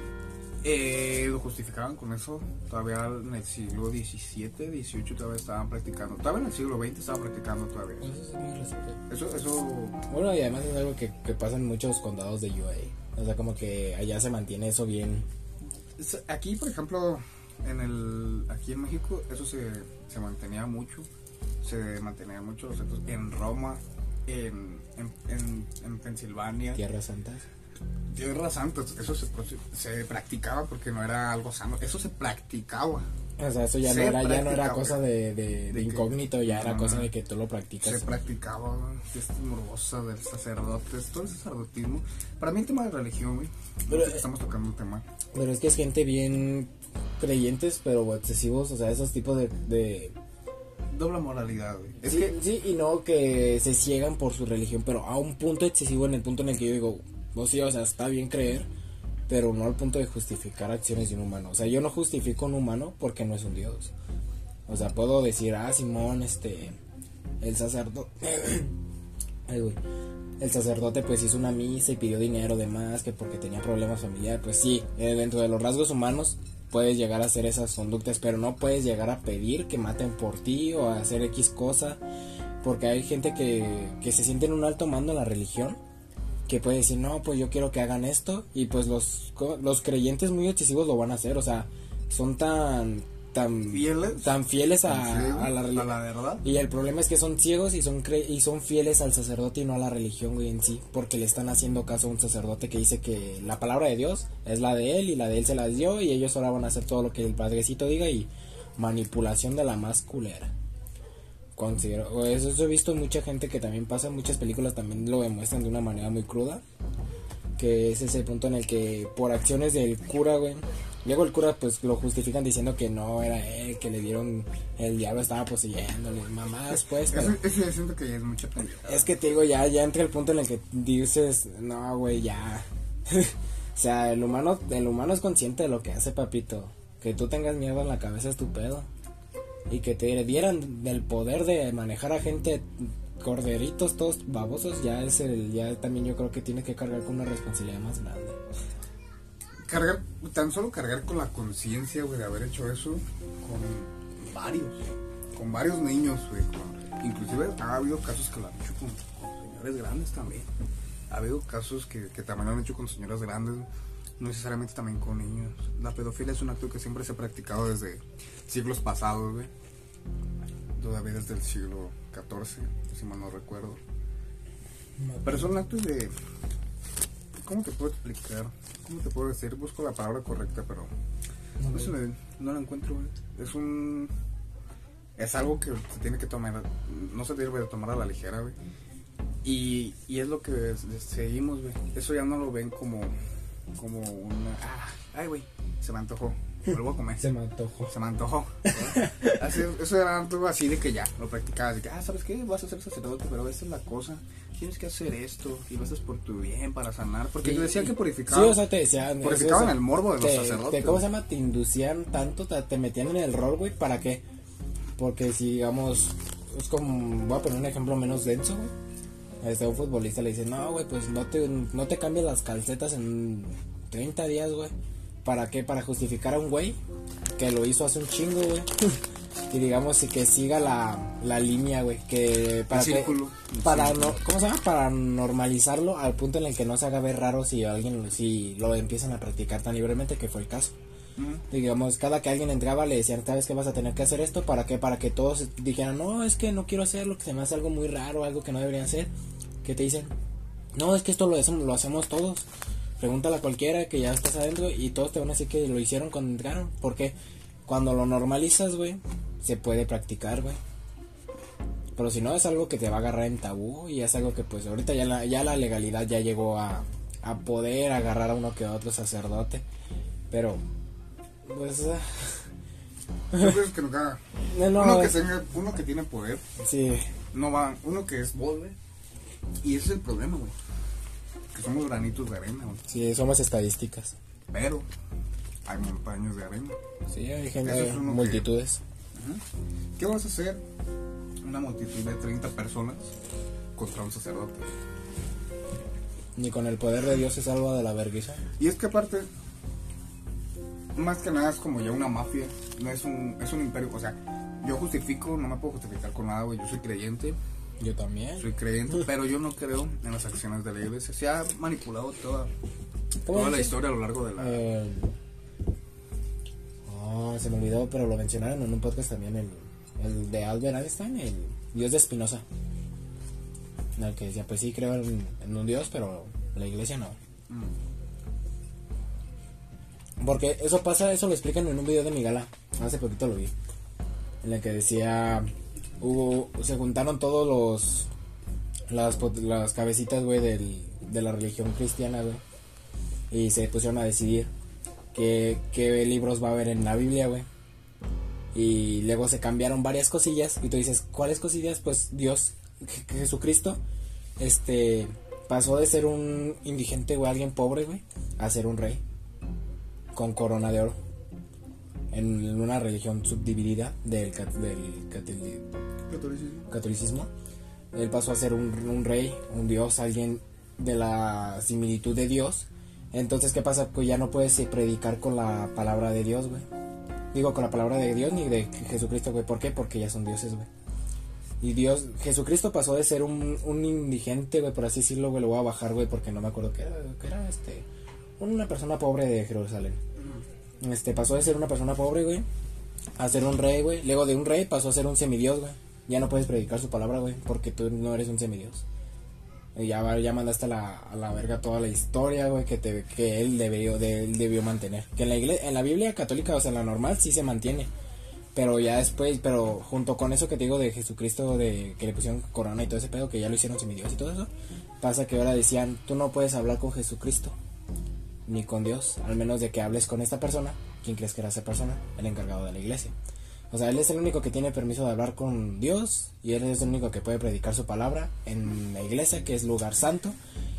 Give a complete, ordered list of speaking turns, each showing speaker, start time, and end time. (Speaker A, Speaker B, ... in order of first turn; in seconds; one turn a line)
Speaker A: 0.6-8.1
Speaker B: 8.0-9.0
Speaker A: 9.1-10.0
Speaker B: 10.1-15.3
Speaker A: 16.0-21.1
Speaker A: 21.6-26.8
Speaker B: 26.8-27.4
Speaker A: 28.1-33.1
Speaker B: 33.4-38.0
Speaker A: 33.8-35.0
Speaker A: 35.7-37.1
Speaker A: 37.8-45.0
Speaker B: 43.9-44.2
Speaker B: 45.3-50.1
Speaker A: 50.9-52.4
Speaker B: 52.0-58.7
Speaker B: 59.3-63.9
Speaker B: 64.7-66.8
Speaker B: 67.4-68.8
Speaker B: 69.5-69.8
Speaker B: 70.4-82.0
Speaker B: 82.6-85.8
Speaker B: 86.5-95.9
Speaker A: 93.7-96.5
Speaker B: 96.4-110.5
Speaker B: 111.6-116.6
Speaker B: 117.6-127.4
Speaker A: 127.1-129.1
Speaker B: 128.9-138.9
Speaker B: 139.7-148.4
Speaker A: 149.7-160.5
Speaker A: 161.1-163.7
Speaker A: 164.2-169.5
Speaker A: 170.8-173.8
Speaker B: 175.0-175.5
Speaker A: 175.2-176.1
Speaker A: 177.4-180.9
Speaker B: 181.6-181.9
Speaker A: 181.7-184.1
Speaker A: 185.2-188.6
Speaker A: 189.4-193.2
Speaker A: 193.8-197.3
Speaker B: 197.2-197.9
Speaker A: 197.9-208.6
Speaker B: 198.7-199.4
Speaker B: 207.4-214.2
Speaker A: 209.2-211.0
Speaker B: 215.0-218.7
Speaker B: 219.4-224.7
Speaker B: 225.2-226.8
Speaker B: 227.4-240.7
Speaker A: 232.7-234.2
Speaker A: 241.2-241.4
Speaker B: 241.5-249.1
Speaker B: 249.6-250.1
Speaker B: 250.8-252.4
Speaker B: 253.0-257.1
Speaker B: 257.7-260.6
Speaker B: 262.0-269.6
Speaker B: 270.3-270.6
Speaker B: 271.5-272.5
Speaker A: 273.3-276.4
Speaker B: 274.5-275.2
Speaker B: 276.6-277.1
Speaker A: 277.3-278.8
Speaker A: 279.6-280.6
Speaker A: 281.5-282.8
Speaker B: 282.9-284.2
Speaker A: 284.5-284.9
Speaker A: 285.6-286.8
Speaker B: 287.1-288.8
Speaker A: 287.6-288.5
Speaker A: 289.1-289.4
Speaker A: 290.0-290.6
Speaker A: 291.4-293.1
Speaker A: 293.8-294.7
Speaker B: 296.4-298.4
Speaker A: 298.6-299.3
Speaker A: 300.9-307.4
Speaker B: 307.8-308.5
Speaker A: 308.4-312.5
Speaker B: 313.3-313.8
Speaker A: 313.3-314.6
Speaker B: 314.4-315.1
Speaker B: 316.9-322.4
Speaker B: 324.0-327.2
Speaker B: 330.2-333.5
Speaker B: 334.4-335.5
Speaker B: 336.0-338.1
Speaker B: 338.9-342.4
Speaker B: 343.3-344.5
Speaker B: 345.1-347.5
Speaker B: 348.5-353.8
Speaker B: 354.4-359.0
Speaker B: 360.1-361.0
Speaker B: 362.1-365.6
Speaker A: 366.1-366.7
Speaker B: 366.7-367.3
Speaker B: 367.9-376.7
Speaker B: 377.3-380.7
Speaker B: 381.6-387.9
Speaker B: 388.4-390.0
Speaker B: 390.8-392.5
Speaker B: 393.2-398.8
Speaker B: 399.8-407.9
Speaker B: 408.6-414.5
Speaker B: 415.0-417.6
Speaker B: 418.5-423.1
Speaker B: 423.7-430.4